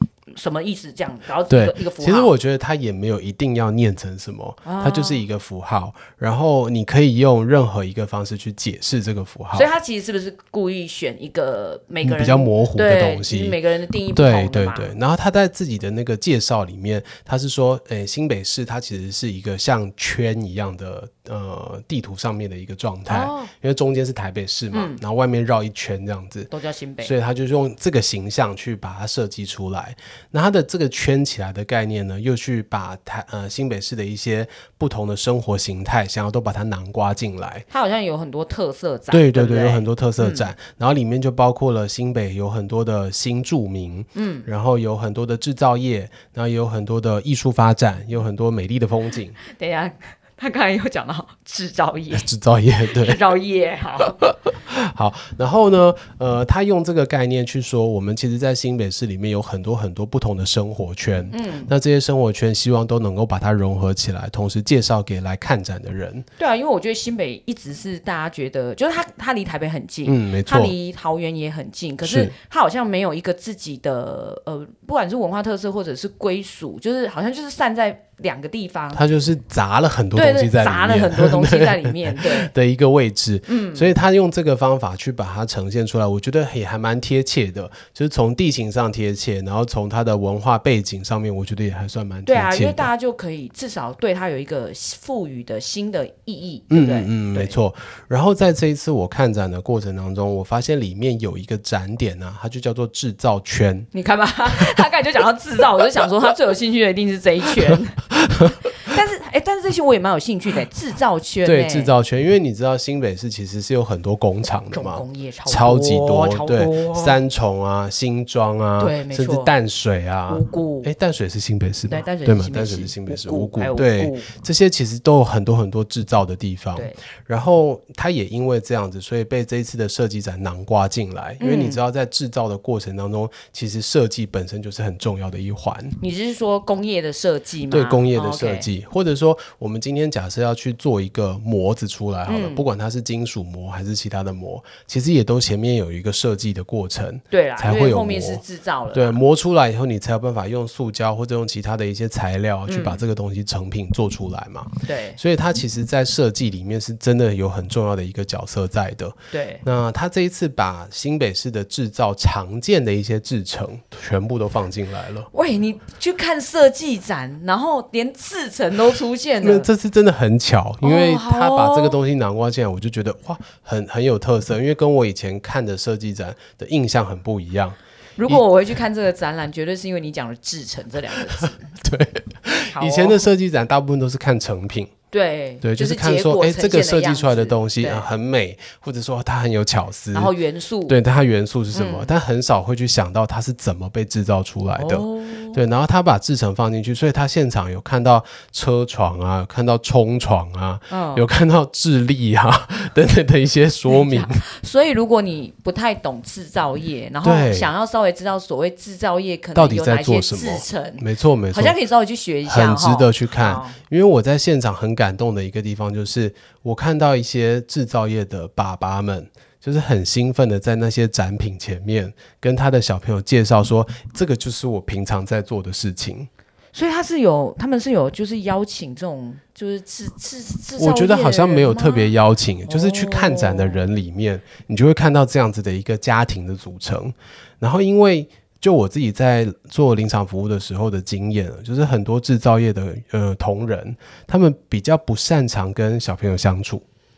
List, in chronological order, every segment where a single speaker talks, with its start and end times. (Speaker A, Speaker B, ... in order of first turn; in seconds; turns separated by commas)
Speaker A: 0.3-2.3, Speaker B: 1.5-9.7, Speaker A: 4.6-5.2, Speaker A: 9.5-15.0, Speaker B: 12.0-13.6, Speaker B: 14.1-37.6, Speaker A: 23.1-23.5, Speaker A: 24.7-25.0, Speaker A: 26.5-27.1, Speaker A: 37.7-40.5, Speaker B: 39.1-49.4, Speaker A: 44.1-44.5, Speaker A: 49.4-52.3, Speaker B: 52.1-53.2, Speaker A: 52.9-54.2, Speaker B: 54.5-66.2, Speaker A: 61.3-61.7, Speaker A: 66.4-79.1, Speaker B: 70.0-70.8, Speaker B: 72.0-72.3, Speaker B: 78.9-92.9, Speaker A: 80.1-82.5, Speaker A: 83.5-83.9, Speaker A: 92.2-97.6, Speaker B: 96.7-103.9, Speaker A: 103.9-111.9, Speaker B: 111.4-135.9, Speaker A: 114.7-117.2, Speaker A: 118.8-119.5, Speaker A: 120.3-120.9, Speaker A: 121.9-124.3, Speaker A: 131.4-131.8, Speaker A: 136.0-138.7, Speaker B: 137.7-148.4, Speaker A: 142.2-142.6, Speaker A: 147.3-149.2, Speaker B: 148.9-165.3, Speaker A: 152.7-153.0, Speaker A: 154.8-155.2, Speaker A: 159.3-159.6, Speaker A: 165.3-169.7, Speaker B: 169.4-178.4, Speaker A: 170.8-172.0, Speaker A: 178.2-181.8, Speaker B: 181.4-184.9, Speaker A: 182.7-183.3, Speaker A: 185.1-188.1, Speaker B: 185.6-190.3, Speaker A: 190.1-191.0, Speaker B: 190.9-204.4, Speaker A: 191.7-192.2, Speaker A: 194.8-195.6, Speaker A: 200.9-201.3, Speaker A: 203.9-213.8, Speaker B: 207.2-207.7, Speaker B: 209.5-211.8, Speaker B: 212.4-226.3, Speaker A: 226.7-232.1, Speaker B: 230.8-246.8, Speaker A: 232.6-233.8